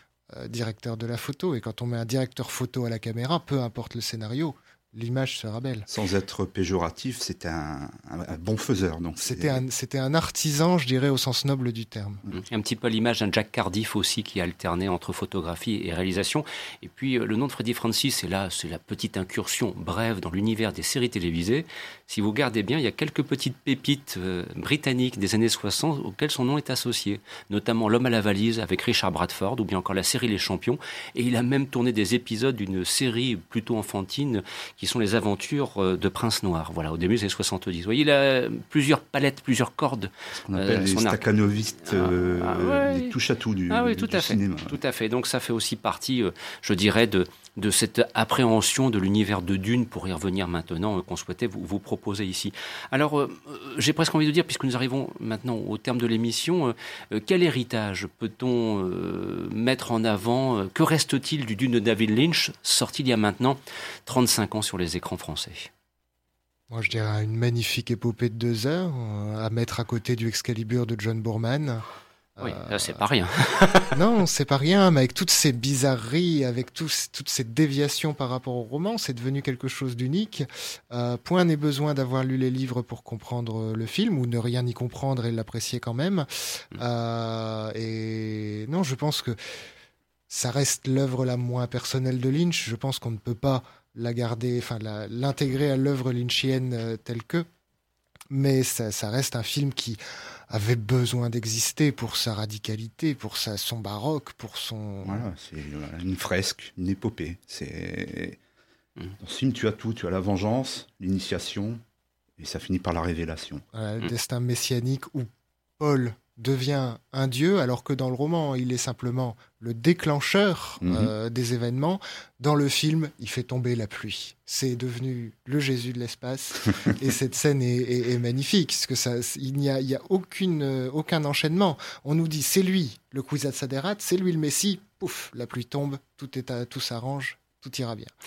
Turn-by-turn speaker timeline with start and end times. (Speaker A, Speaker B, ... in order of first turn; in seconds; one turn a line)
Speaker A: 0.3-5.9
Speaker B: 5.9-9.6
Speaker A: 9.2-12.2
Speaker C: 12.3-41.3
Speaker B: 40.4-44.8
Speaker C: 41.8-43.1
Speaker C: 43.7-65.7
Speaker A: 66.7-71.8
Speaker A: 72.4-73.0
Speaker C: 72.4-74.0
Speaker A: 73.9-89.4
Speaker A: 90.3-97.5
Speaker A: 98.3-105.3
Speaker B: 105.0-108.4
Speaker B: 109.2-111.8
Speaker B: 112.4-113.6
Speaker A: 113.7-115.3
Speaker A: 115.8-138.1
Speaker B: 120.8-121.1